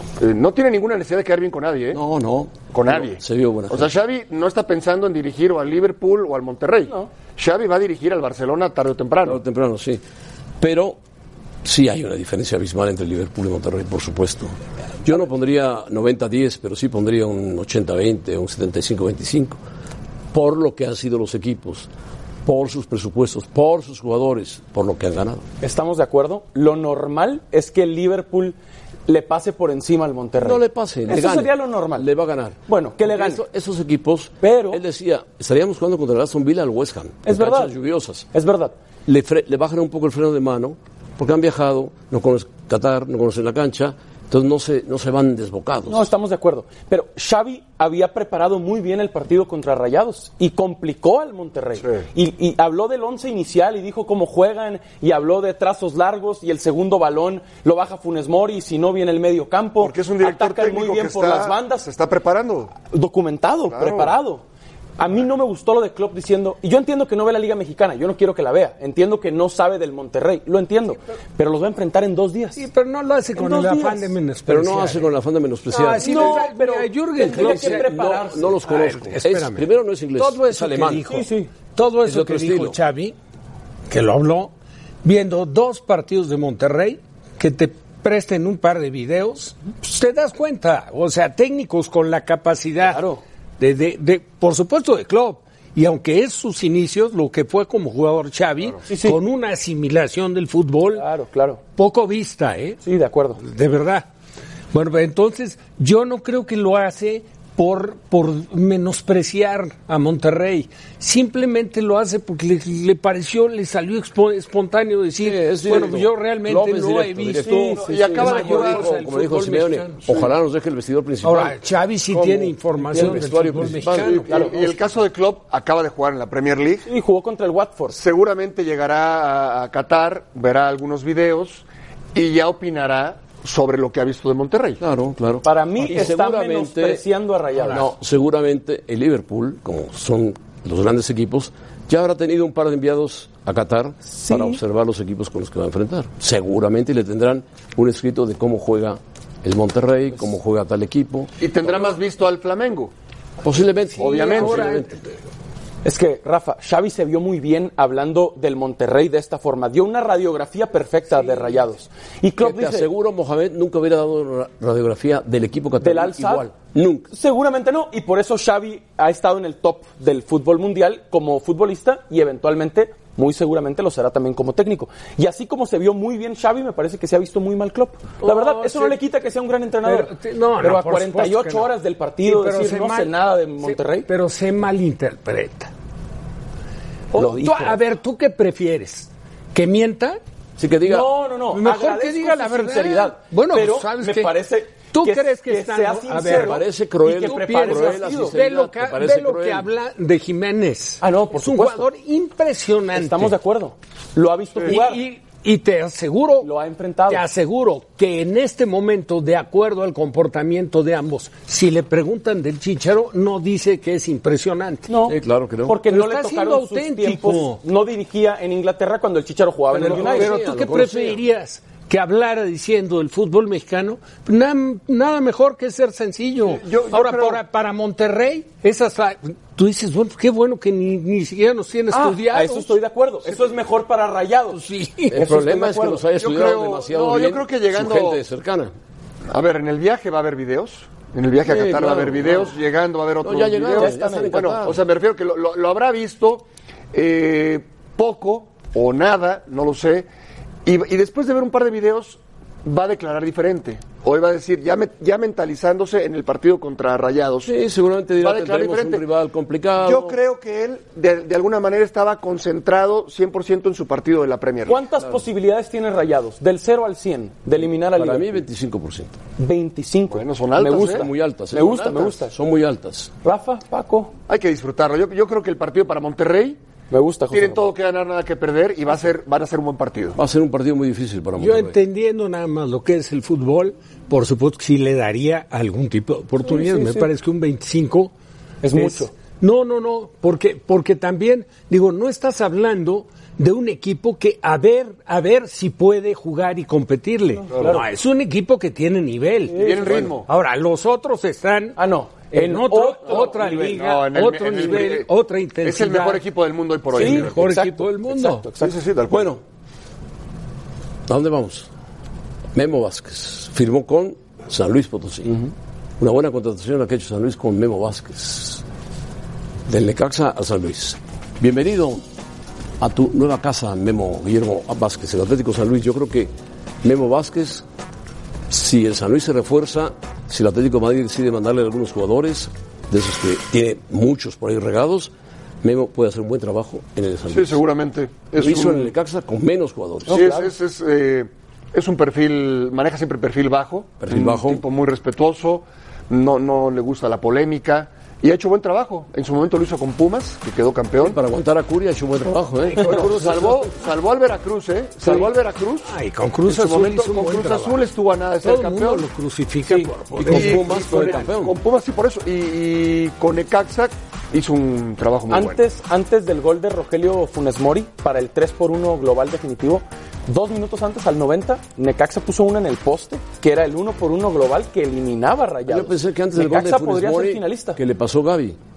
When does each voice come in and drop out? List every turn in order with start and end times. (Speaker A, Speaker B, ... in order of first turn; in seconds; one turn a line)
Speaker A: 0.2-2.0
Speaker B: 1.9-3.9
Speaker A: 2.7-9.4
Speaker B: 9.2-10.0
Speaker B: 10.6-11.0
Speaker B: 11.6-19.6
Speaker B: 20.3-21.9
Speaker B: 22.4-25.4
Speaker C: 25.6-28.6
Speaker C: 29.1-32.1
Speaker B: 30.4-38.2
Speaker C: 32.7-33.4
Speaker C: 34.4-34.8
Speaker C: 37.2-37.7
Speaker C: 38.3-38.7
Speaker B: 39.0-46.1
Speaker C: 45.9-61.9
Speaker A: 59.8-62.7
Speaker C: 62.9-64.4
Speaker A: 63.7-64.1
Speaker C: 65.0-72.6
Speaker D: 72.5-75.1
Speaker C: 73.3-74.1
Speaker B: 74.5-76.5
Speaker D: 75.7-78.0
Speaker C: 76.0-78.6
Speaker B: 77.3-81.0
Speaker D: 78.7-83.1
Speaker C: 81.0-81.5
Speaker B: 82.0-82.8
Speaker D: 83.9-84.5
Speaker D: 85.0-93.0
Speaker C: 92.8-93.2
Speaker D: 93.6-101.0
Speaker C: 98.9-99.2
Speaker C: 100.9-101.6
Speaker D: 101.8-102.8
Speaker C: 102.8-103.4
Speaker D: 103.4-104.0
Speaker D: 104.7-120.0
Speaker B: 115.2-121.6
Speaker C: 117.4-118.4
Speaker A: 117.8-118.9
Speaker D: 121.2-124.4
Speaker B: 122.1-124.5
Speaker C: 122.9-123.3
Speaker A: 124.0-126.9
Speaker C: 124.3-124.5
Speaker C: 126.8-128.0
Speaker A: 127.9-134.8
Speaker B: 134.8-137.1
Speaker C: 135.4-137.9
Speaker B: 137.7-151.3
Speaker C: 144.1-144.6
Speaker A: 151.4-152.9
Speaker B: 153.4-155.0
Speaker A: 153.9-154.7
Speaker D: 154.2-154.8
Speaker C: 155.8-162.9
Speaker B: 162.4-167.1
Speaker C: 165.8-166.5
Speaker C: 167.1-184.1
Speaker D: 178.2-179.0
Speaker D: 179.8-181.7
Speaker D: 182.2-185.7
Speaker C: 187.1-187.8
Speaker D: 187.1-190.2
Speaker B: 190.6-191.1
Speaker C: 190.8-198.4
Speaker D: 191.5-203.3
Speaker B: 196.2-199.7
Speaker C: 201.0-201.9
Speaker C: 202.9-205.0
Speaker D: 204.6-206.5
Speaker C: 206.4-207.2
Speaker D: 207.1-214.9
Speaker C: 214.9-220.3
Speaker B: 215.1-215.8
Speaker D: 215.8-217.6
Speaker B: 219.7-221.2
Speaker D: 219.7-232.7
Speaker A: 226.4-227.4
Speaker C: 231.9-234.6
Speaker D: 234.5-235.3
Speaker B: 235.1-238.7
Speaker C: 235.1-236.0
Speaker A: 236.2-238.2
Speaker A: 239.3-250.1
Speaker B: 241.4-242.5
Speaker B: 243.2-244.8
Speaker C: 243.7-244.5
Speaker A: 250.7-257.5
Speaker B: 257.4-260.2
Speaker A: 258.2-259.1
Speaker A: 259.8-264.8
Speaker C: 264.6-268.4
Speaker B: 267.9-269.1
Speaker C: 269.4-272.3
Speaker A: 270.1-271.1
Speaker B: 270.7-273.1
Speaker C: 273.2-274.1
Speaker A: 274.3-276.6
Speaker C: 276.9-277.7
Speaker A: 277.3-280.2
Speaker B: 280.1-281.8
Speaker D: 281.4-288.1
Speaker C: 286.4-287.1
Speaker C: 288.6-289.1
Speaker D: 288.7-301.8
Speaker C: 297.5-297.8
Speaker C: 299.5-300.1
Speaker A: 299.5-300.3
Speaker C: 301.8-303.8
Speaker D: 302.3-306.2
Speaker A: 303.1-305.1
Speaker A: 305.6-307.4
Speaker D: 306.9-308.5
Speaker C: 306.9-308.7
Speaker A: 308.6-309.4
Speaker B: 309.1-309.4
Speaker B: 311.1-311.7
Speaker B: 312.5-315.4
Speaker B: 316.0-318.6
Speaker B: 319.7-322.0
Speaker B: 322.8-326.3
Speaker B: 326.8-327.6
Speaker B: 328.5-335.1
Speaker B: 335.6-337.6
Speaker A: 337.3-338.9
Speaker B: 338.4-340.3
Speaker C: 340.1-340.5
Speaker A: 340.1-351.2
Speaker B: 344.0-344.6
Speaker B: 351.0-353.3
Speaker A: 352.8-355.9
Speaker C: 355.0-355.3
Speaker D: 355.9-357.8
Speaker A: 356.4-359.1
Speaker D: 358.4-361.1
Speaker C: 359.6-359.9
Speaker B: 360.1-361.5
Speaker A: 360.2-365.6
Speaker C: 365.3-377.8
Speaker B: 375.7-378.6